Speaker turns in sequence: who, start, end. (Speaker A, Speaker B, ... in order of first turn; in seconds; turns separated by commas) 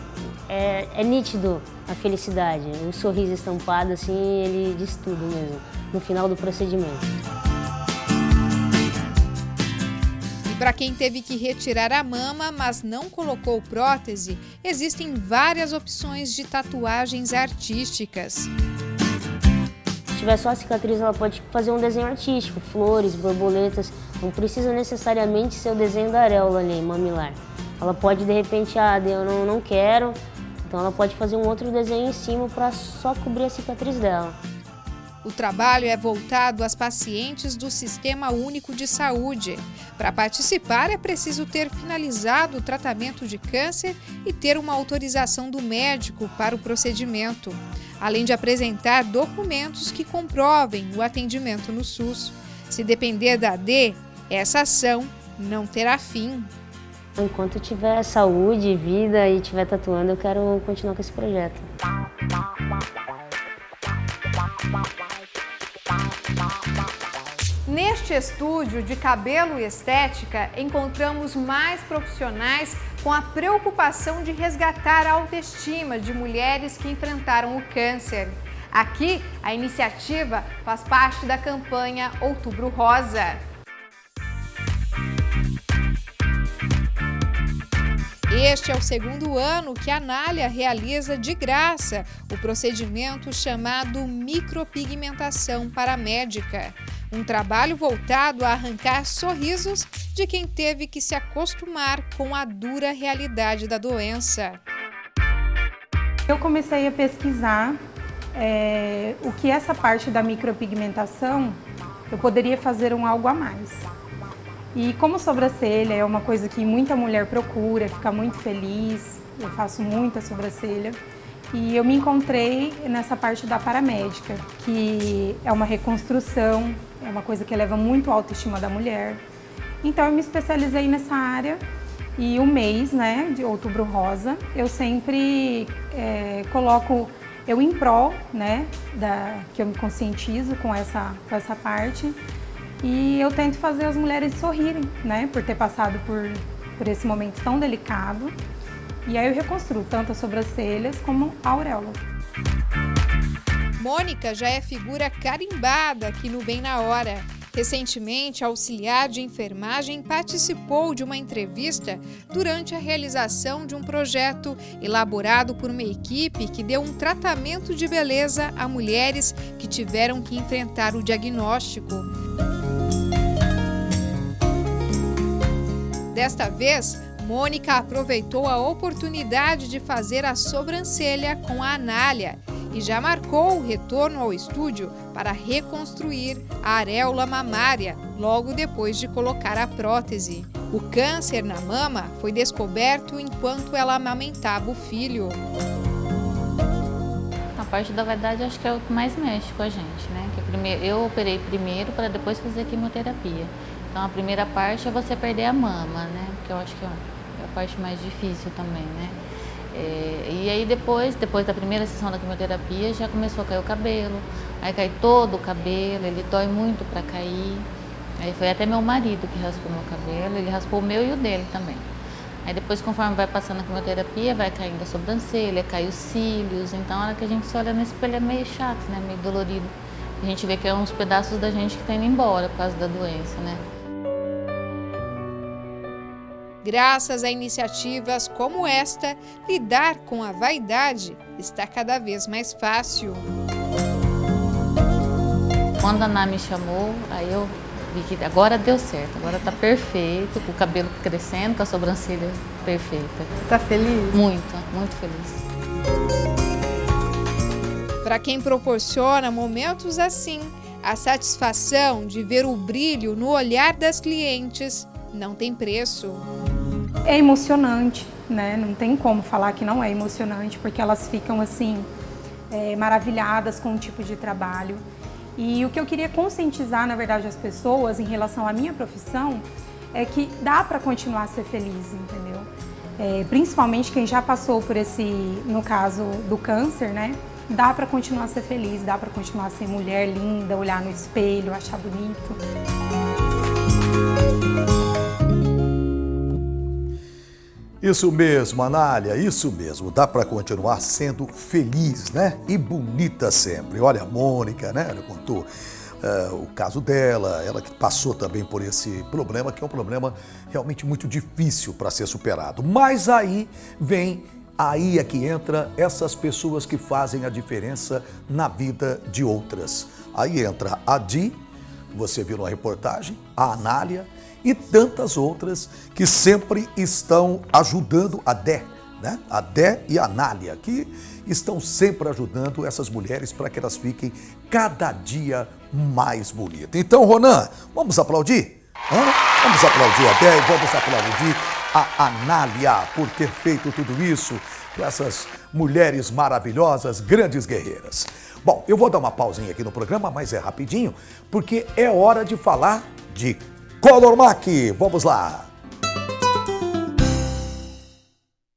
Speaker A: 0.5-7.1, Speaker B: 10.5-18.5, Speaker A: 20.1-34.4, Speaker B: 35.2-56.5, Speaker A: 57.2-61.7, Speaker B: 67.7-83.4, Speaker B: 88.3-104.6, Speaker C: 106.3-107.8, Speaker C: 108.3-111.6, Speaker C: 112.1-113.9, Speaker C: 114.7-121.0, Speaker C: 121.5-129.2, Speaker C: 129.8-131.6, Speaker C: 132.2-142.2, Speaker C: 142.8-148.3, Speaker C: 149.1-152.0, Speaker B: 153.8-172.1, Speaker B: 176.1-195.4, Speaker D: 197.6-209.2, Speaker D: 209.7-217.7, Speaker D: 218.2-221.8, Speaker D: 222.4-229.7, Speaker D: 230.2-233.6, Speaker B: 236.6-243.3, Speaker D: 245.8-253.3, Speaker B: 253.5-254.2, Speaker D: 254.1-255.4, Speaker B: 258.0-266.2, Speaker C: 267.1-271.9, Speaker C: 272.5-274.8, Speaker C: 275.4-292.4, Speaker E: 297.8-305.5, Speaker E: 306.0-321.4, Speaker E: 321.9-355.5